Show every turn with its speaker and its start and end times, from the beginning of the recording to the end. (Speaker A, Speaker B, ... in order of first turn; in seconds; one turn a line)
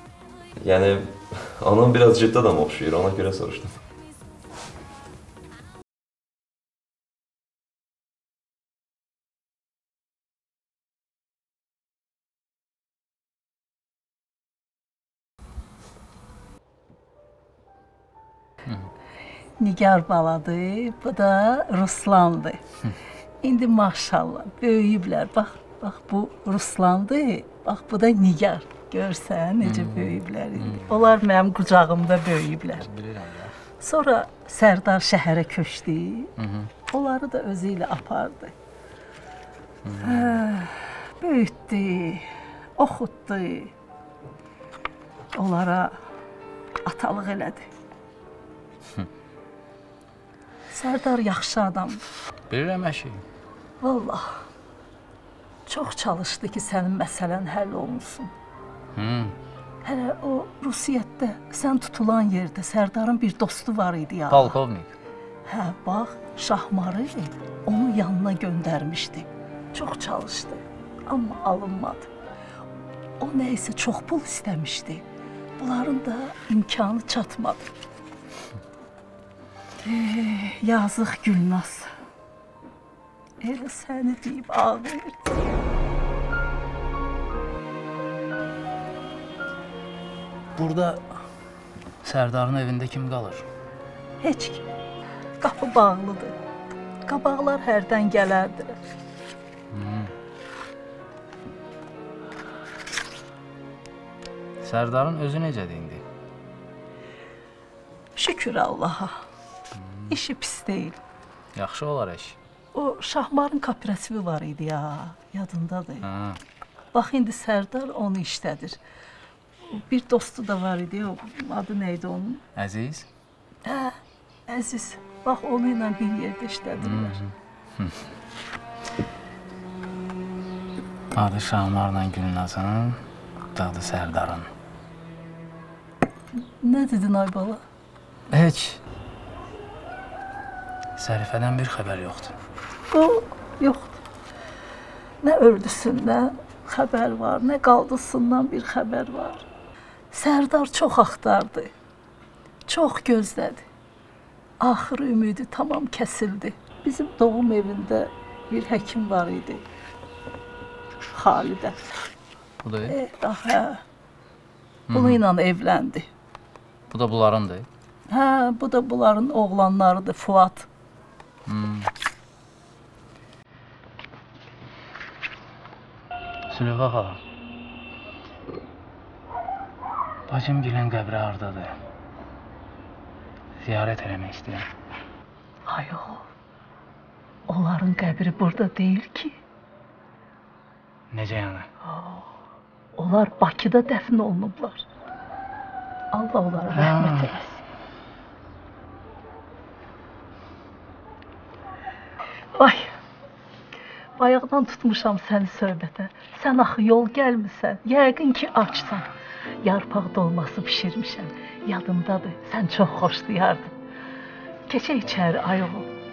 Speaker A: 0.6-3.8
Speaker B: 19.6-22.6
Speaker B: 23.4-32.9
Speaker C: 29.6-30.9
Speaker C: 32.8-33.5
Speaker B: 33.8-36.3
Speaker C: 36.4-36.7
Speaker B: 36.9-38.5
Speaker C: 39.9-40.3
Speaker B: 40.0-42.2
Speaker B: 42.8-43.7
Speaker B: 45.3-46.0
Speaker B: 46.9-47.7
Speaker B: 50.7-52.0
Speaker C: 52.5-53.2
Speaker B: 53.8-54.5
Speaker B: 55.6-58.3
Speaker C: 59.0-59.4
Speaker B: 59.8-64.6
Speaker C: 64.3-64.9
Speaker B: 65.5-72.1
Speaker B: 73.2-75.0
Speaker B: 75.6-77.6
Speaker B: 79.8-81.9
Speaker B: 83.4-85.3
Speaker C: 90.6-91.0
Speaker C: 92.0-93.5
Speaker B: 94.2-94.6
Speaker B: 95.4-96.3
Speaker B: 97.1-98.8
Speaker C: 99.7-100.1
Speaker C: 104.6-106.0
Speaker B: 108.2-109.2
Speaker C: 109.7-110.1
Speaker B: 110.1-111.0
Speaker C: 111.5-112.4
Speaker B: 112.7-116.1
Speaker C: 116.0-116.4
Speaker B: 116.9-118.8
Speaker B: 119.7-122.4
Speaker C: 122.6-123.1
Speaker B: 123.6-127.2
Speaker C: 126.8-128.1
Speaker C: 131.1-133.0
Speaker C: 133.5-134.5
Speaker B: 136.6-137.6
Speaker C: 138.3-138.8
Speaker C: 141.0-142.3
Speaker B: 142.9-144.0
Speaker B: 145.2-149.4
Speaker B: 150.1-151.7
Speaker B: 152.7-153.6
Speaker B: 154.6-159.6
Speaker B: 161.1-161.9
Speaker C: 162.6-162.9
Speaker B: 162.9-163.8
Speaker C: 164.9-165.2
Speaker B: 164.9-166.1
Speaker C: 166.9-167.7
Speaker B: 168.1-170.7
Speaker C: 171.5-171.9
Speaker C: 176.5-177.2
Speaker C: 180.3-181.7
Speaker C: 183.6-184.7
Speaker B: 185.7-186.2
Speaker B: 187.5-189.3
Speaker C: 191.1-191.7
Speaker B: 191.8-192.3
Speaker B: 193.0-194.8
Speaker B: 196.1-197.6
Speaker C: 196.7-197.3
Speaker B: 202.6-202.9
Speaker B: 204.2-209.1
Speaker B: 209.6-213.7
Speaker B: 214.7-215.9